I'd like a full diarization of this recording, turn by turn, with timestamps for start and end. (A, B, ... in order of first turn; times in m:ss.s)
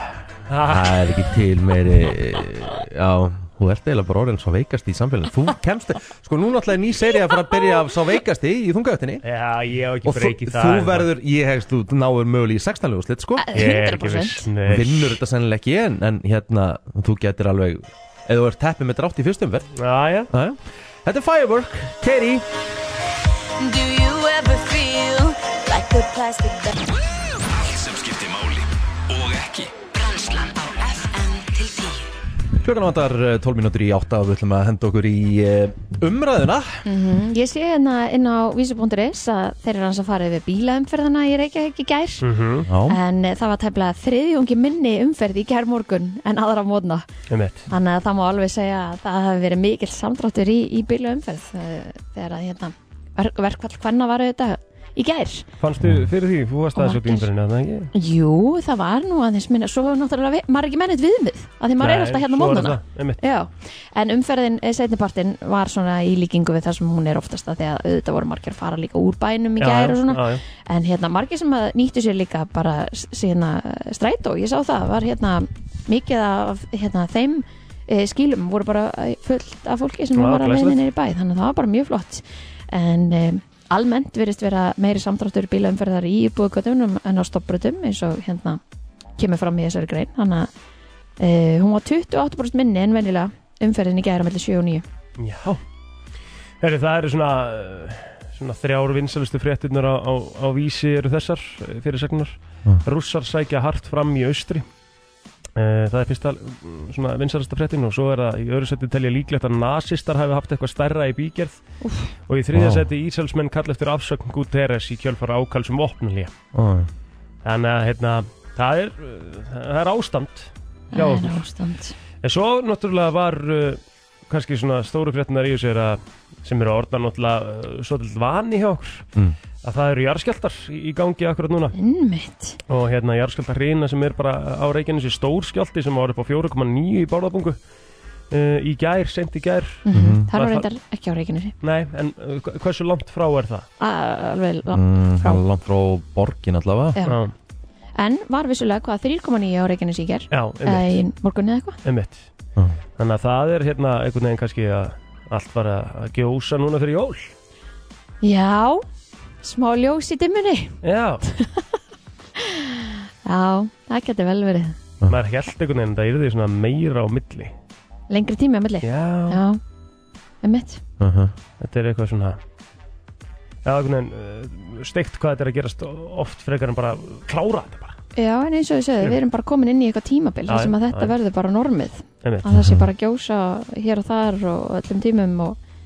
0:00.5-0:01.0 A
0:00.6-0:09.2 B
0:09.2-0:11.1 A
0:10.0-0:13.5 B
0:13.4-0:14.5 C
0:13.5-0:15.2 A
0:14.6-0:19.7 B
0:19.8-0:20.3 A
0:20.3-0:22.4 B
0:23.6-0:26.7 D
0:27.5-0:29.8 E
0:29.9-0:32.0 D
0:32.6-0:36.8 B
0:36.8-0:42.2 C
0:42.2-0:42.7 A
0:42.6-0:43.0 B
0:42.9-0:47.0 C
0:47.3-0:47.7 A
0:47.7-0:55.5 C
0:55.6-0:57.9 A
0:55.8-0:56.1 B
0:56.7-0:57.3 C
0:57.9-1:28.6 C
1:01.8-1:03.2 A
1:09.6-1:10.4 A
1:20.2-1:20.8 A
1:29.2-1:30.5 C
1:31.2-1:34.8 C
1:35.2-1:35.6 A
1:36.6-1:44.6 A
1:45.6-1:51.6 A
1:51.8-1:52.1 C
1:52.2-1:56.3 A
1:52.5-1:52.8 B
1:56.5-1:56.9 B
1:57.4-2:01.4 A
2:00.9-2:02.0 C
2:02.2-2:09.1 A
2:09.6-2:11.7 A
2:11.7-2:12.6 C
2:12.7-2:17.6 A
2:18.3-2:20.6 A
2:19.8-2:21.5 C
2:19.9-2:20.3 B
2:21.6-2:23.7 A
2:23.8-2:25.4 C
2:24.7-2:27.0 B
2:27.0-2:27.3 A
2:28.0-2:31.8 C
2:30.3-2:31.0 A
2:31.8-2:32.3 A
2:33.0-2:37.3 A
2:38.2-2:38.8 C
2:39.4-2:41.7 C
2:40.8-2:41.2 A
2:42.4-2:44.8 C
2:45.1-2:47.5 A
2:48.1-2:49.6 C
2:48.8-2:49.4 A
2:50.4-2:50.8 C
2:51.0-2:51.3 B
2:51.6-2:52.4 A
2:53.6-2:58.0 A
2:58.2-3:05.6 C
3:00.5-3:01.1 A
3:02.5-3:02.9 B